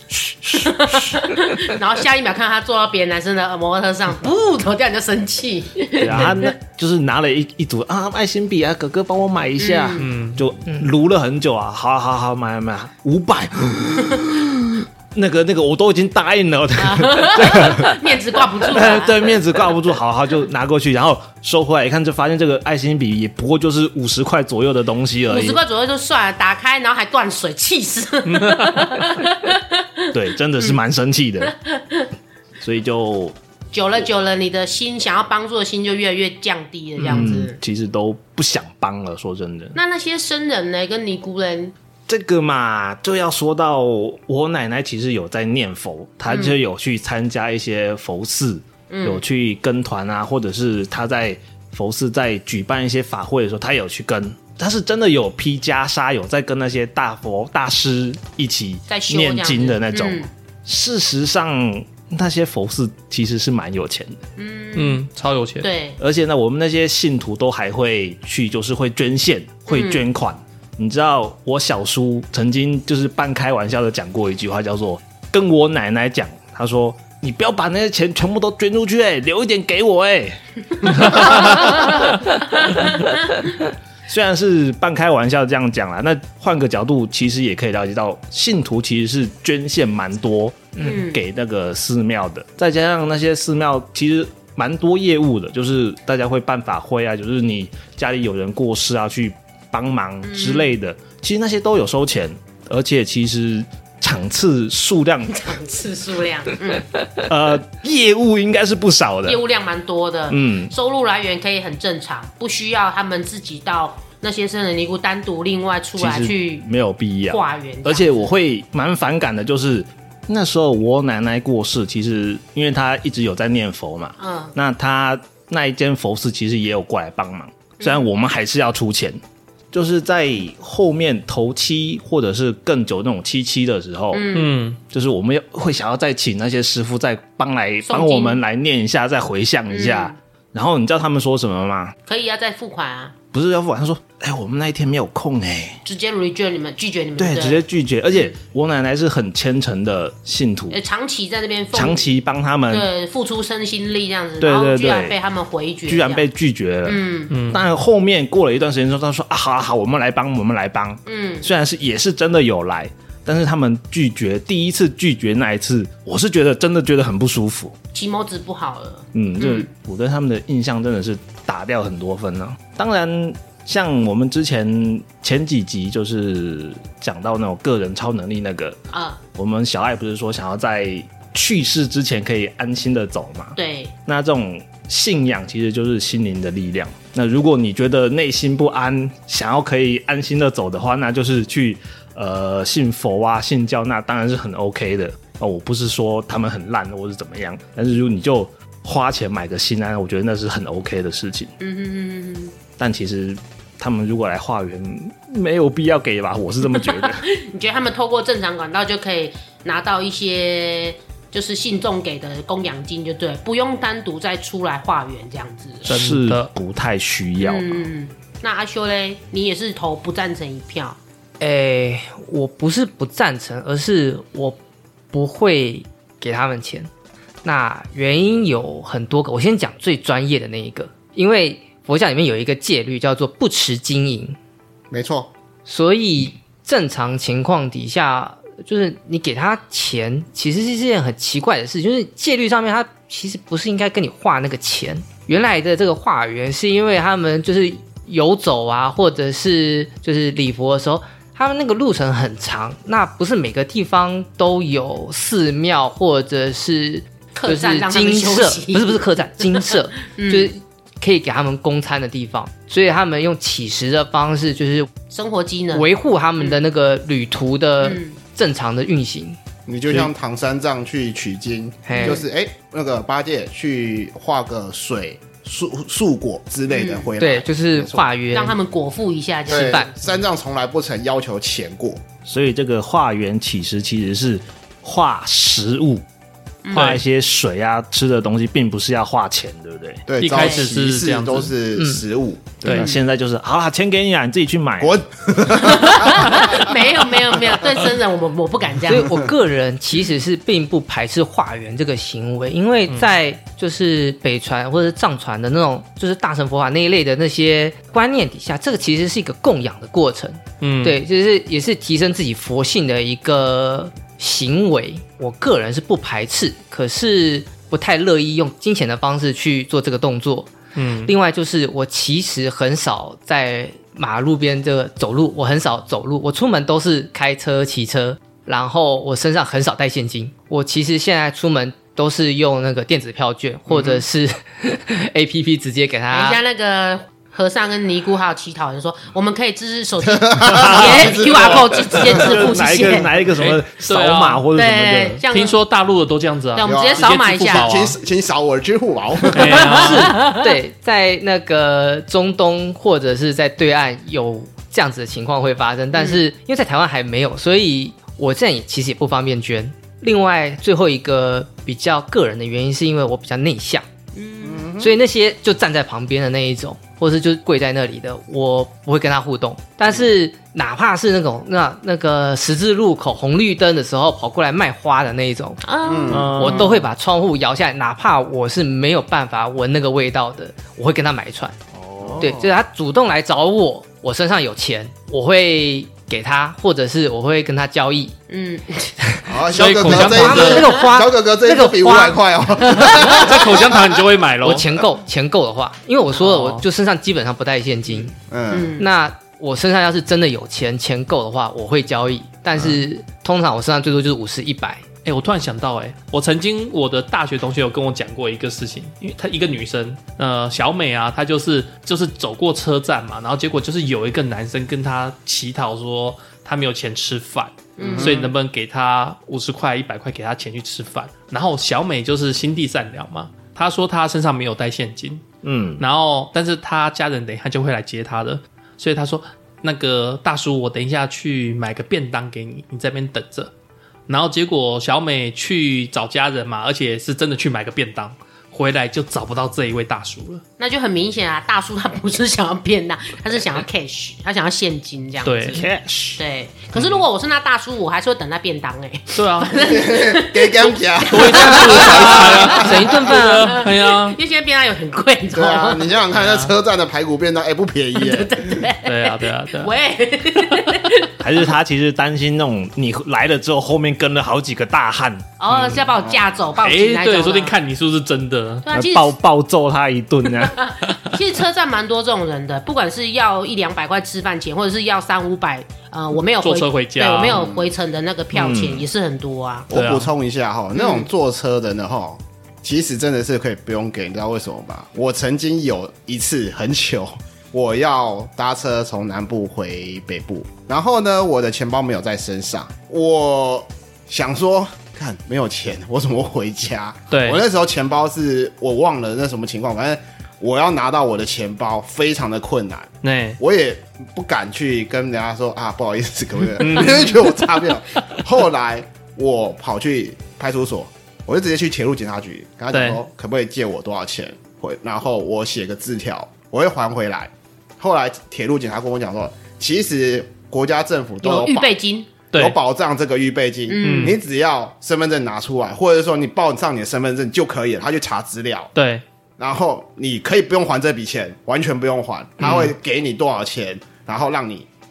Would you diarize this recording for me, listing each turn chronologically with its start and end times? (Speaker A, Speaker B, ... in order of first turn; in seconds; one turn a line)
Speaker A: 0.2-1.2
Speaker B: 0.5-6.6
Speaker A: 6.0-18.0
Speaker C: 6.0-6.4
Speaker B: 9.6-10.1
Speaker C: 10.0-10.4
Speaker B: 16.8-19.7
Speaker A: 18.6-25.6
Speaker B: 25.3-30.8
Speaker C: 28.2-29.0
Speaker A: 30.1-31.5
Speaker B: 31.4-32.1
Speaker A: 32.6-33.3
Speaker B: 33.7-37.6
Speaker A: 37.0-39.8
Speaker B: 39.7-41.7
Speaker A: 42.1-64.2
Speaker B: 46.3-46.5
Speaker B: 48.9-49.2
Speaker B: 58.9-60.3
Speaker B: 64.4-65.0
Speaker C: 64.7-65.7
Speaker B: 65.6-66.0
Speaker A: 66.0-83.1
Speaker B: 69.7-70.0
Speaker B: 81.2-82.0
Speaker B: 82.6-83.4
Speaker A: 84.1-105.4
Speaker B: 90.8-91.2
Speaker B: 100.2-100.7
Speaker B: 105.3-106.9
Speaker A: 107.1-109.4
Speaker B: 109.2-116.7
Speaker A: 110.3-110.7
Speaker A: 116.0-129.2
Speaker B: 117.3-118.3
Speaker B: 124.2-124.5
Speaker B: 127.8-128.1
Speaker A: 129.7-134.3
Speaker B: 134.1-134.6
Speaker C: 134.3-134.8
Speaker A: 134.9-141.9
Speaker B: 137.8-138.4
Speaker B: 139.7-140.1
Speaker B: 142.0-143.2
Speaker A: 143.3-145.8
Speaker B: 145.8-147.6
Speaker A: 147.2-150.8
Speaker B: 150.7-152.1
Speaker A: 151.7-152.9
Speaker B: 152.7-156.3
Speaker A: 154.4-155.2
Speaker A: 155.9-167.8
Speaker B: 156.8-157.3
Speaker C: 157.3-157.6
Speaker B: 161.1-161.5
Speaker B: 167.9-169.7
Speaker A: 169.1-178.8
Speaker B: 178.9-179.2
Speaker A: 179.3-201.5
Speaker B: 183.5-183.9
Speaker B: 201.6-202.6
Speaker A: 202.8-207.2
Speaker B: 206.8-215.9
Speaker A: 215.8-217.9
Speaker C: 215.8-216.5
Speaker B: 217.4-221.0
Speaker D: 221.4-224.6
Speaker D: 225.1-226.9
Speaker D: 227.4-234.4
Speaker E: 234.9-235.3
Speaker D: 235.7-264.9
Speaker B: 257.3-260.5
Speaker B: 265.1-265.9
Speaker D: 265.7-269.4
Speaker B: 267.8-268.2
Speaker E: 269.7-278.1
Speaker D: 271.9-272.2
Speaker B: 271.9-272.2
Speaker B: 276.7-277.1
Speaker D: 277.2-278.6
Speaker B: 278.3-279.9
Speaker E: 279.5-282.0
Speaker D: 279.5-280.0
Speaker A: 282.2-286.0
Speaker B: 286.6-287.0
Speaker A: 286.7-290.1
Speaker C: 286.7-287.0
Speaker E: 290.1-292.8
Speaker C: 290.2-291.5
Speaker B: 290.3-290.6
Speaker D: 291.8-292.0
Speaker A: 292.6-295.0
Speaker B: 292.7-293.0
Speaker E: 294.8-296.7
Speaker B: 295.5-299.3
Speaker D: 298.8-320.5
Speaker C: 310.6-311.0
Speaker C: 320.7-321.1
Speaker D: 321.0-336.4
Speaker E: 333.7-334.0
Speaker B: 336.1-343.1
Speaker E: 340.0-342.2
Speaker A: 340.5-345.2
Speaker C: 343.4-344.4
Speaker B: 344.5-345.6
Speaker C: 345.3-347.9
Speaker B: 346.5-347.7
Speaker E: 346.6-349.8
Speaker C: 349.3-350.2
Speaker B: 349.5-350.4
Speaker D: 349.6-363.8
Speaker B: 355.9-356.2
Speaker B: 364.1-364.6
Speaker E: 364.4-364.9
Speaker D: 364.8-375.6
Speaker B: 375.6-376.8
Speaker E: 375.8-376.5
Speaker A: 376.1-376.8
Speaker D: 376.3-381.6
Speaker A: 381.7-382.3
Speaker E: 382.0-382.5
Speaker D: 382.2-388.1
Speaker B: 388.3-388.9
Speaker E: 389.2-394.0
Speaker C: 389.5-390.7
Speaker D: 389.8-393.0
Speaker C: 392.9-394.7
Speaker D: 394.4-398.1
Speaker C: 396.1-396.6
Speaker E: 398.3-398.8
Speaker B: 398.5-398.9
Speaker D: 398.8-404.8
Speaker C: 405.0-433.5
Speaker B: 417.8-418.3
Speaker E: 417.8-418.3
Speaker A: 425.4-425.8
Speaker C: 434.1-440.4
Speaker B: 440.6-456.4
Speaker C: 445.2-445.6
Speaker A: 445.5-446.2
Speaker C: 446.8-447.0
Speaker C: 449.1-449.5
Speaker E: 449.6-452.9
Speaker C: 451.1-454.2
Speaker D: 452.5-453.6
Speaker E: 455.3-458.7
Speaker B: 457.9-461.1
Speaker C: 458.8-459.7
Speaker C: 460.5-460.7
Speaker A: 461.2-465.3
Speaker B: 465.4-467.6
Speaker C: 465.5-465.9
Speaker E: 466.0-466.4
Speaker C: 466.6-468.6
Speaker B: 468.6-469.2
Speaker A: 468.7-470.6
Speaker B: 470.4-479.7
Speaker C: 476.3-477.5
Speaker E: 477.2-477.7
Speaker A: 478.3-478.8
Speaker E: 479.7-521.8
Speaker C: 479.7-480.1
Speaker B: 480.7-481.1
Speaker C: 497.1-497.4
Speaker C: 503.0-503.4
Speaker C: 506.6-507.2
Speaker C: 512.7-513.0
Speaker B: 521.2-522.1
Speaker E: 522.3-528.7
Speaker B: 523.7-524.2
Speaker C: 523.8-524.2
Speaker C: 528.7-529.0
Speaker E: 529.4-534.7
Speaker C: 532.4-532.7